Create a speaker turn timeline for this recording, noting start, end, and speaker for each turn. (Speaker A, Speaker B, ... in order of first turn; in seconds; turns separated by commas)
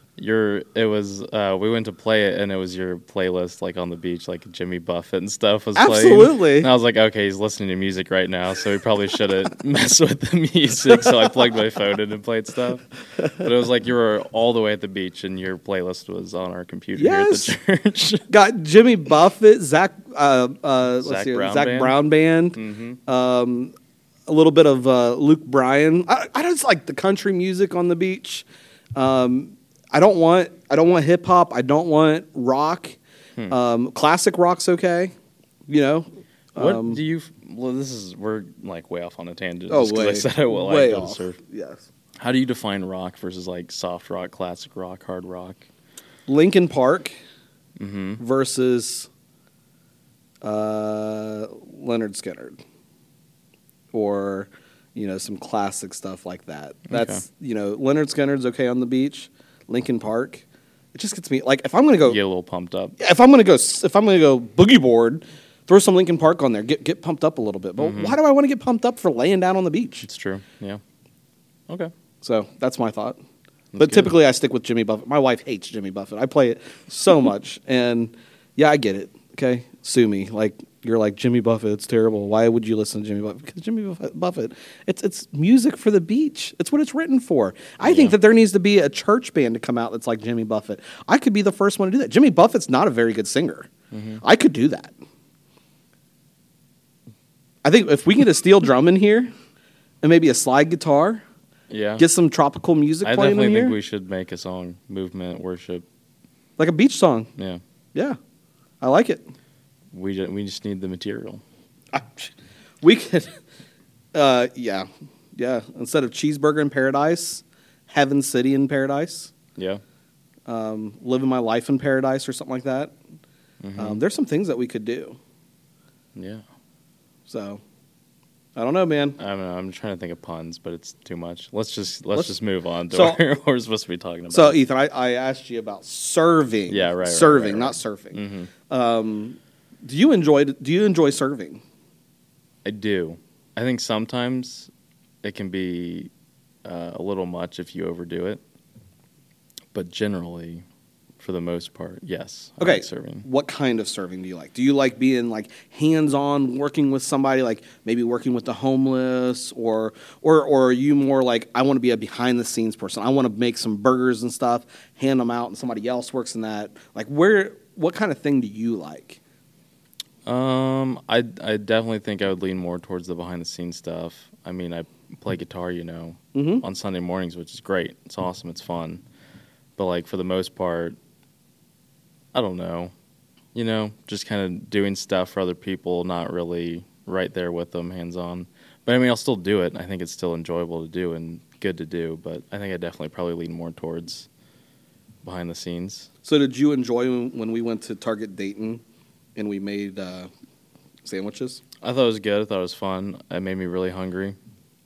Speaker A: 0.2-18.3, Speaker B: 5.8-6.7, Speaker B: 17.0-17.6, Speaker B: 18.3-23.7, Speaker A: 21.0-22.0, Speaker A: 22.6-23.0, Speaker B: 24.3-33.0, Speaker B: 33.5-35.1, Speaker B: 35.7-37.0, Speaker A: 36.6-41.4, Speaker B: 39.7-41.9, Speaker A: 42.2-45.6, Speaker B: 46.3-47.1, Speaker A: 47.8-48.2, Speaker B: 48.2-49.1, Speaker B: 50.4-52.6, Speaker B: 53.9-62.2, Speaker A: 56.9-57.2, Speaker A: 62.1-63.0, Speaker B: 63.0-70.1, Speaker A: 67.8-68.2, Speaker A: 70.0-70.8, Speaker B: 72.2-73.2, Speaker A: 73.7-74.1, Speaker B: 73.8-93.7, Speaker A: 87.8-88.2, Speaker A: 93.9-94.2, Speaker B: 94.2-94.9, Speaker B: 97.6-99.3, Speaker B: 100.0-101.2, Speaker A: 101.7-102.0, Speaker B: 102.0-103.8, Speaker A: 103.0-105.8, Speaker B: 106.6-107.3, Speaker B: 108.8-109.2, Speaker A: 109.9-111.4, Speaker B: 111.9-113.3, Speaker B: 114.1-119.3, Speaker A: 119.6-119.8, Speaker B: 120.5-122.9, Speaker A: 123.6-124.0, Speaker B: 123.8-125.2, Speaker A: 126.1-126.4, Speaker B: 127.3-127.6, Speaker B: 128.6-129.2, Speaker A: 129.2-134.6, Speaker B: 132.9-133.2, Speaker B: 134.3-141.6, Speaker A: 136.7-138.5, Speaker A: 142.6-144.7, Speaker A: 145.2-146.1, Speaker A: 146.6-148.4, Speaker A: 149.7-150.6, Speaker A: 151.2-153.2, Speaker B: 152.6-169.2, Speaker A: 170.3-179.0, Speaker B: 176.3-176.6, Speaker A: 179.8-181.0, Speaker A: 182.3-182.9, Speaker A: 183.5-194.3, Speaker A: 195.2-196.1, Speaker B: 196.2-198.8, Speaker B: 199.4-200.3, Speaker B: 201.1-201.6, Speaker A: 201.8-204.4